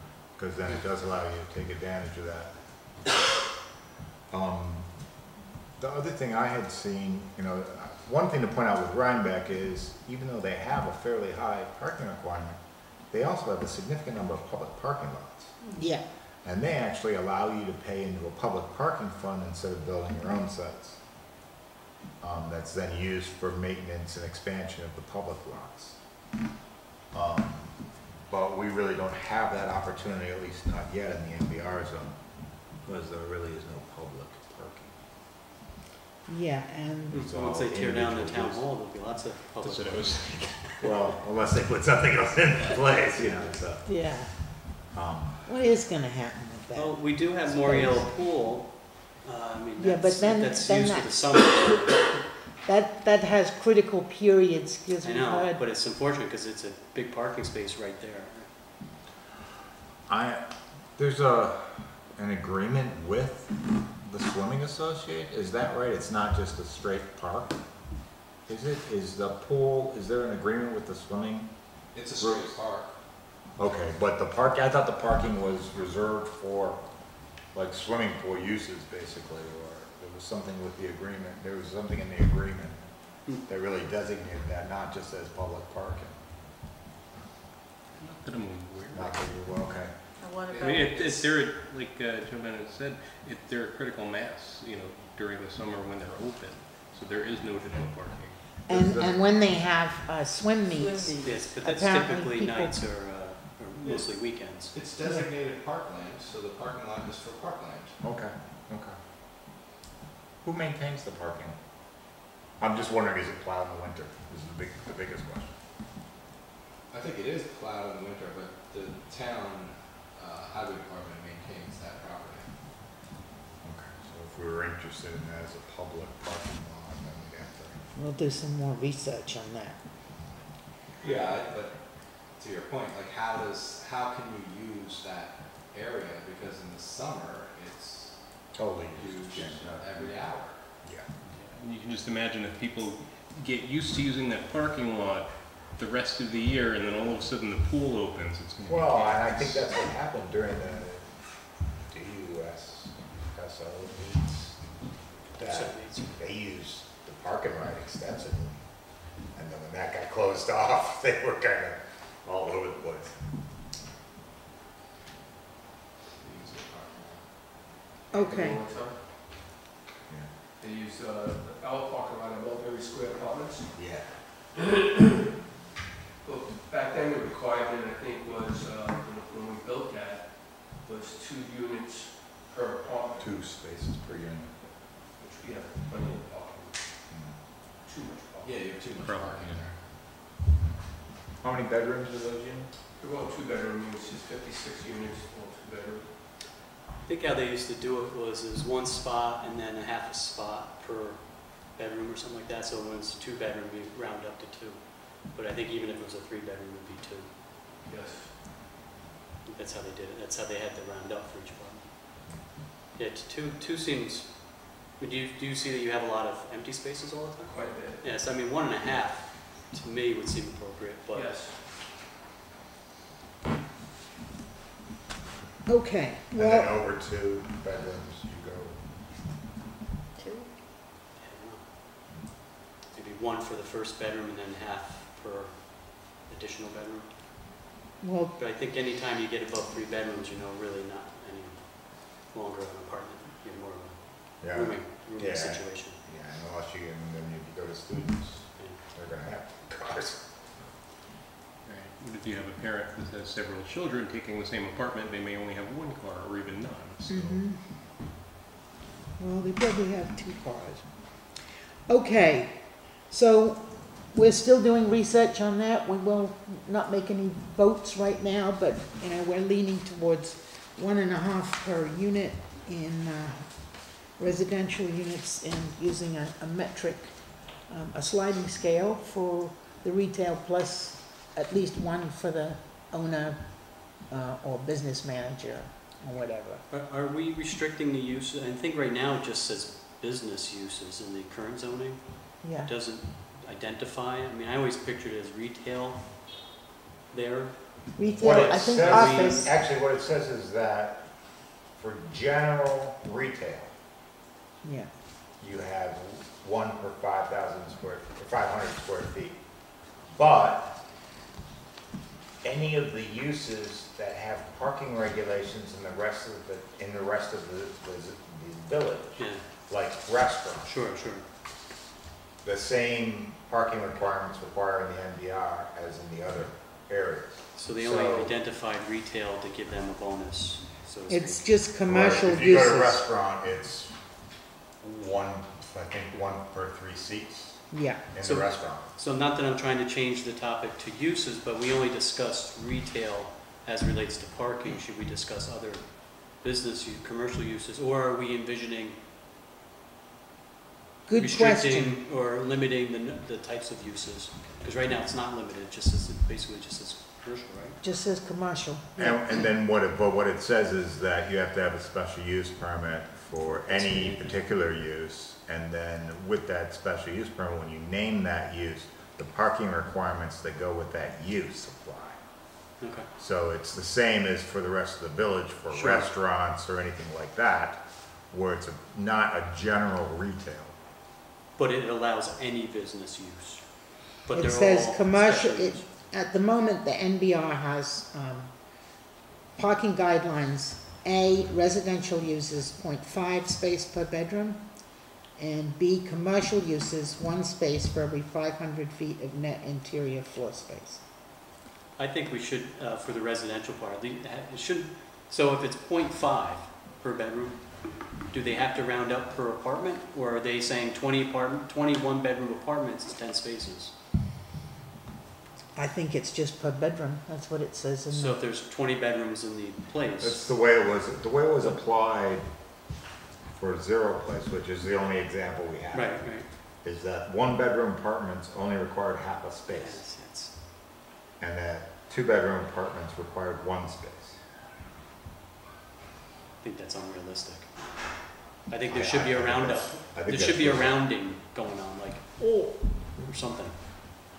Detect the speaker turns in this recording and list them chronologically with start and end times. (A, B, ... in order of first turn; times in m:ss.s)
0:00.4-0:02.6 A
0:04.3-0:04.9 A
0:05.8-0:12.6 A
0:13.1-0:15.6 A
0:15.6-0:15.9 B
0:15.8-0:16.1 C
0:16.4-0:21.0 A
0:22.2-0:26.0 A
0:27.1-0:32.2 A
0:32.8-0:35.0 A
0:36.3-0:37.3 C
0:37.1-0:38.7 A
0:37.1-0:40.3 D
0:39.6-0:40.6 E
0:40.8-0:43.9 A
0:43.9-0:44.4 C
0:44.9-0:45.4 A
0:45.5-0:48.1 C
0:46.7-0:52.2 D
0:49.8-0:51.5 C
0:52.6-0:55.6 C
0:55.0-0:58.5 D
1:00.1-1:00.4 A
1:01.0-1:07.6 A
1:08.5-1:11.5 A
1:11.9-1:12.9 F
1:12.2-1:12.6 A
1:13.6-1:16.8 A
1:17.5-1:22.9 A
1:23.5-1:26.2 A
1:28.0-1:29.3 E
1:28.9-1:30.0 A
1:30.2-1:31.3 B
1:30.5-1:38.9 E
1:38.7-1:42.8 C
1:40.7-1:41.5 B
1:41.2-1:44.7 D
1:44.6-1:48.0 F
1:48.0-1:49.0 A
1:50.4-1:51.6 A
1:52.6-1:55.6 A
1:56.9-2:02.5 F
2:03.6-2:07.8 A
2:08.0-2:09.8 C
2:11.0-2:20.8 F
2:11.0-2:11.3 A
2:18.6-2:20.0 A
2:20.8-2:21.1 A
2:21.5-2:29.8 E
2:28.6-2:34.6 A
2:35.3-2:38.6 A
2:35.4-2:36.1 D
2:39.3-2:43.2 A
2:46.0-2:47.7 F
2:48.1-2:48.6 C
2:48.1-2:49.2 G
2:50.6-2:53.8 G
2:53.7-2:54.2 A
2:54.5-2:55.0 G
2:56.2-3:03.4 G
3:03.2-3:04.6 A
3:05.1-3:07.0 G
3:07.1-3:07.4 A
3:07.8-3:09.1 G
3:08.4-3:09.9 F
3:09.0-3:09.5 E
3:11.4-3:12.7 A
3:12.2-3:12.6 F
3:13.0-3:16.2 G
3:17.0-3:27.3 D
3:27.8-3:28.4 G
3:29.5-3:32.0 D
3:33.0-3:41.4 D
3:37.4-3:38.1 G
3:41.1-3:41.7 G
3:45.7-3:46.7 C
3:46.4-3:48.8 A
3:50.2-3:50.5 B
3:51.1-3:51.7 D
3:52.9-3:57.1 D
3:58.0-3:58.4 C
3:58.4-4:06.0 D
4:04.4-4:10.5 A
4:11.6-4:17.2 E
4:17.1-4:17.6 C
4:17.1-4:17.4 A
4:19.2-4:21.2 C
4:21.9-4:46.6 C
4:46.7-4:56.3 D
4:52.4-4:52.7 C
4:57.1-4:59.5 D
4:58.0-4:59.5 C
4:58.2-5:01.1 A
5:01.7-5:03.7 A
5:04.6-5:04.9 C
5:05.4-5:09.4 A
5:10.1-5:10.8 A
5:12.4-5:20.7 A
5:19.2-5:19.4 D
5:20.6-5:21.3 D
5:22.4-5:28.4 A
5:27.6-5:31.5 D
5:31.1-5:33.0 C
5:31.9-5:34.0 A
5:34.8-5:38.9 A
5:37.7-5:38.0 C
5:38.2-5:49.0 D
5:51.1-5:52.0 C
5:51.2-5:57.8 D
5:57.8-5:59.5 C
5:59.0-6:12.2 A
6:03.7-6:04.4 D
6:12.8-6:13.1 D
6:13.2-6:20.8 A
6:15.7-6:16.1 D
6:21.6-6:25.8 D
6:24.3-6:28.6 C
6:29.6-6:34.8 C
6:35.3-6:41.0 C
6:42.0-6:53.9 D
6:55.8-6:58.4 C
6:58.1-7:00.5 D
7:00.2-7:02.5 A
7:03.6-7:10.0 A
7:05.9-7:06.5 D
7:09.7-7:10.5 D
7:11.4-7:14.4 A
7:16.6-7:23.8 D
7:18.9-7:21.0 A